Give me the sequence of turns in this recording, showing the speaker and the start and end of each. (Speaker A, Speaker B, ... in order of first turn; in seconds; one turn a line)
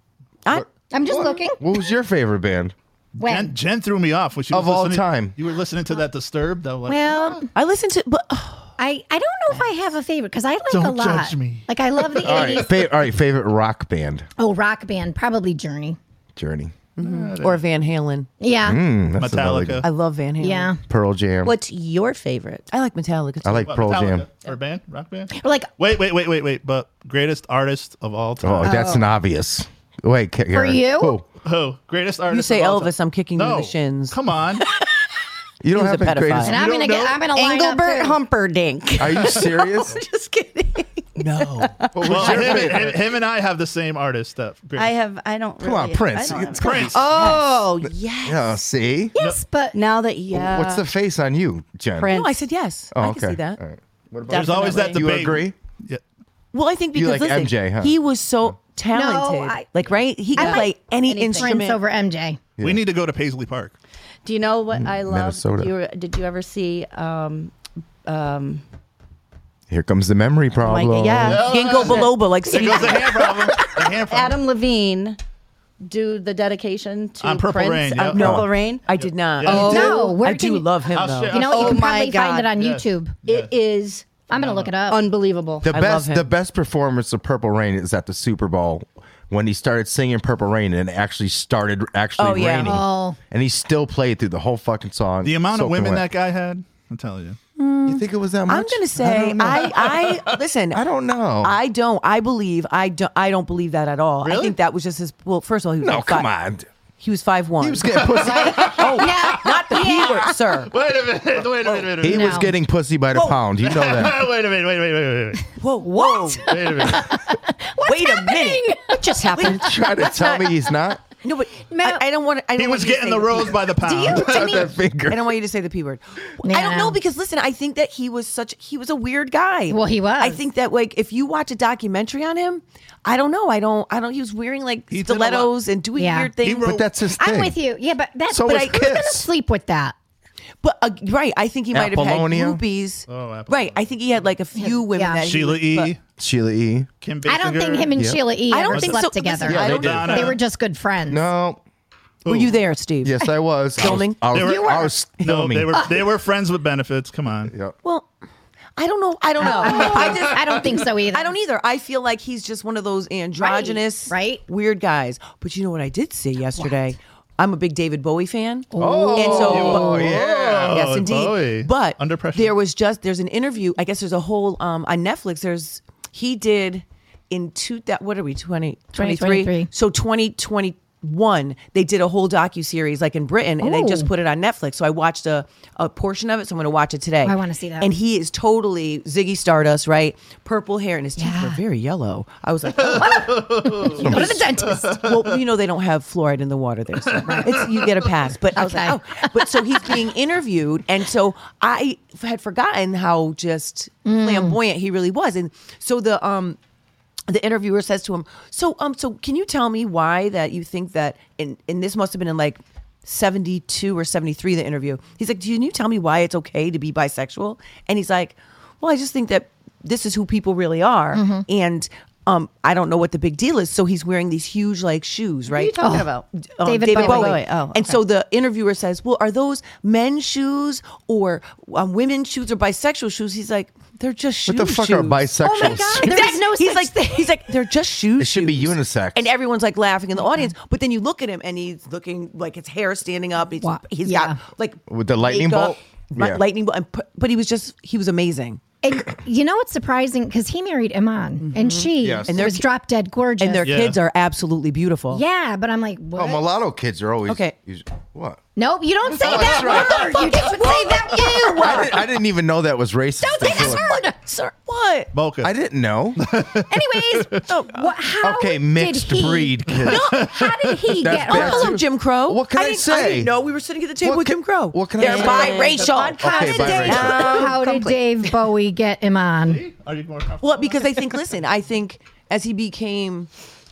Speaker A: 0.5-2.7
Speaker B: 0.9-1.9
Speaker C: 3.1-7.5
Speaker B: 3.2-3.5
Speaker A: 4.5-5.3
Speaker B: 6.9-7.5
Speaker D: 7.5-8.8
Speaker B: 8.8-12.8
Speaker C: 10.7-12.7
Speaker A: 12.2-14.3
Speaker B: 14.4-16.0
Speaker A: 16.4-16.8
Speaker D: 17.0-18.3
Speaker C: 17.0-17.6
Speaker B: 18.4-18.8
Speaker A: 18.6-19.8
Speaker C: 19.1-19.9
Speaker D: 19.8-20.7
Speaker B: 20.4-20.8
Speaker A: 20.8-21.5
Speaker E: 21.4-22.6
Speaker D: 22.7-23.7
Speaker A: 23.4-24.3
Speaker C: 23.6-28.8
Speaker B: 25.3-25.7
Speaker A: 28.4-31.2
Speaker E: 28.6-29.0
Speaker B: 28.7-29.0
Speaker B: 30.5-31.2
Speaker C: 31.4-34.6
Speaker D: 32.3-35.1
Speaker A: 35.6-36.6
Speaker D: 35.7-36.6
Speaker B: 36.4-38.2
Speaker C: 36.5-37.2
Speaker E: 37.3-42.6
Speaker A: 39.0-40.0
Speaker D: 41.2-42.4
Speaker A: 42.0-43.0
Speaker C: 42.0-44.9
Speaker E: 44.8-48.6
Speaker A: 45.6-47.0
Speaker C: 46.5-47.4
Speaker D: 46.8-47.5
Speaker A: 47.8-49.1
Speaker B: 49.1-49.8
Speaker E: 49.7-50.9
Speaker A: 50.3-52.1
Speaker E: 52.0-52.4
Speaker D: 52.1-53.6
Speaker A: 52.9-55.5
Speaker E: 54.3-55.1
Speaker C: 54.3-56.0
Speaker D: 56.5-61.8
Speaker A: 57.0-58.0
Speaker B: 58.9-59.7
Speaker B: 60.4-60.7
Speaker E: 60.4-61.6
Speaker B: 61.4-62.4
Speaker C: 62.6-63.7
Speaker E: 64.2-67.5
Speaker A: 64.7-65.7
Speaker E: 68.1-68.6
Speaker A: 69.7-71.4
Speaker E: 70.6-72.9
Speaker C: 71.3-74.4
Speaker D: 71.4-73.3
Speaker E: 73.6-75.2
Speaker E: 75.8-78.8
Speaker C: 77.2-78.4
Speaker D: 78.2-81.5
Speaker A: 78.2-78.5
Speaker C: 79.0-80.1
Speaker B: 79.4-80.7
Speaker C: 80.9-81.9
Speaker B: 81.3-83.2
Speaker E: 81.4-82.5
Speaker C: 82.6-83.5
Speaker E: 83.2-84.2
Speaker B: 84.3-85.0
Speaker C: 84.3-84.7
Speaker E: 84.9-85.7
Speaker A: 85.6-96.0
Speaker D: 85.7-86.3
Speaker D: 92.2-92.8
Speaker B: 92.6-93.2
Speaker C: 95.2-97.4
Speaker D: 97.6-100.8
Speaker A: 97.9-99.6
Speaker C: 99.0-100.4
Speaker A: 100.7-101.6
Speaker D: 101.4-106.3
Speaker C: 104.2-104.6
Speaker A: 105.8-106.7
Speaker D: 107.0-108.0
Speaker A: 107.6-109.0
Speaker C: 107.9-112.5
Speaker B: 108.1-110.4
Speaker D: 108.6-110.7
Speaker D: 111.7-112.0
Speaker A: 112.0-114.3
Speaker B: 112.0-112.5
Speaker D: 113.1-113.4
Speaker C: 113.6-115.5
Speaker D: 115.6-116.6
Speaker B: 116.0-119.9
Speaker C: 116.5-117.2
Speaker D: 117.8-120.6
Speaker E: 119.0-119.5
Speaker A: 119.4-121.0
Speaker D: 121.1-123.7
Speaker B: 121.7-122.0
Speaker C: 122.6-124.7
Speaker B: 123.8-124.7
Speaker A: 124.1-125.4
Speaker D: 125.1-136.8
Speaker B: 126.4-127.0
Speaker B: 129.7-130.4
Speaker C: 134.9-135.5
Speaker B: 136.0-136.3
Speaker C: 136.4-136.9
Speaker A: 136.6-137.6
Speaker B: 137.2-139.9
Speaker A: 138.3-139.3
Speaker D: 138.4-138.8
Speaker D: 140.6-145.9
Speaker A: 141.7-142.6
Speaker C: 143.1-143.9
Speaker B: 144.6-145.3
Speaker C: 145.2-146.0
Speaker A: 146.2-146.9
Speaker C: 147.0-148.1
Speaker B: 147.3-151.3
Speaker D: 148.5-150.3
Speaker C: 148.7-150.4
Speaker A: 149.5-150.3
Speaker A: 151.1-151.6
Speaker C: 152.2-152.6
Speaker D: 152.3-153.2
Speaker A: 153.0-155.8
Speaker D: 153.8-154.4
Speaker C: 153.8-157.5
Speaker B: 154.3-154.9
Speaker A: 157.5-157.8
Speaker D: 157.8-158.1
Speaker D: 158.8-206.6
Speaker B: 159.4-161.4
Speaker C: 159.6-160.7
Speaker B: 163.4-164.4
Speaker B: 168.7-169.8
Speaker A: 168.8-170.8
Speaker C: 169.2-172.6
Speaker B: 179.0-179.7
Speaker B: 183.6-184.1
Speaker B: 187.2-187.9
Speaker B: 191.2-191.6
Speaker C: 192.8-195.4
Speaker B: 192.8-195.1
Speaker A: 194.0-194.4
Speaker C: 197.1-198.1
Speaker B: 197.3-197.6
Speaker B: 198.6-199.2
Speaker B: 204.1-204.6
Speaker D: 207.3-225.8
Speaker B: 221.1-221.5
Speaker E: 225.6-226.3
Speaker B: 225.7-226.1
Speaker D: 226.4-248.6
Speaker B: 226.6-227.4
Speaker E: 226.9-228.0
Speaker A: 234.5-236.2
Speaker B: 235.4-237.4
Speaker A: 238.2-239.3
Speaker B: 243.6-244.4
Speaker A: 244.9-246.4
Speaker B: 248.8-253.7
Speaker D: 251.4-252.7
Speaker A: 252.0-252.4
Speaker D: 253.4-255.2
Speaker C: 253.6-254.0
Speaker B: 255.1-256.4
Speaker A: 256.2-258.4
Speaker D: 257.3-257.5
Speaker B: 258.6-262.0
Speaker A: 259.1-260.4
Speaker D: 259.2-262.1
Speaker A: 261.6-264.0
Speaker B: 263.2-264.2
Speaker D: 263.4-265.1
Speaker C: 265.1-265.5
Speaker A: 265.4-266.2
Speaker C: 266.2-267.4
Speaker B: 266.7-271.8
Speaker D: 267.5-268.2
Speaker A: 268.2-270.1
Speaker C: 269.8-270.9
Speaker D: 269.8-270.3
Speaker D: 270.9-277.6
Speaker A: 271.0-273.3
Speaker A: 274.0-275.6
Speaker B: 275.0-279.6
Speaker E: 275.1-278.1
Speaker A: 276.2-277.5
Speaker C: 279.4-281.2
Speaker D: 280.4-283.3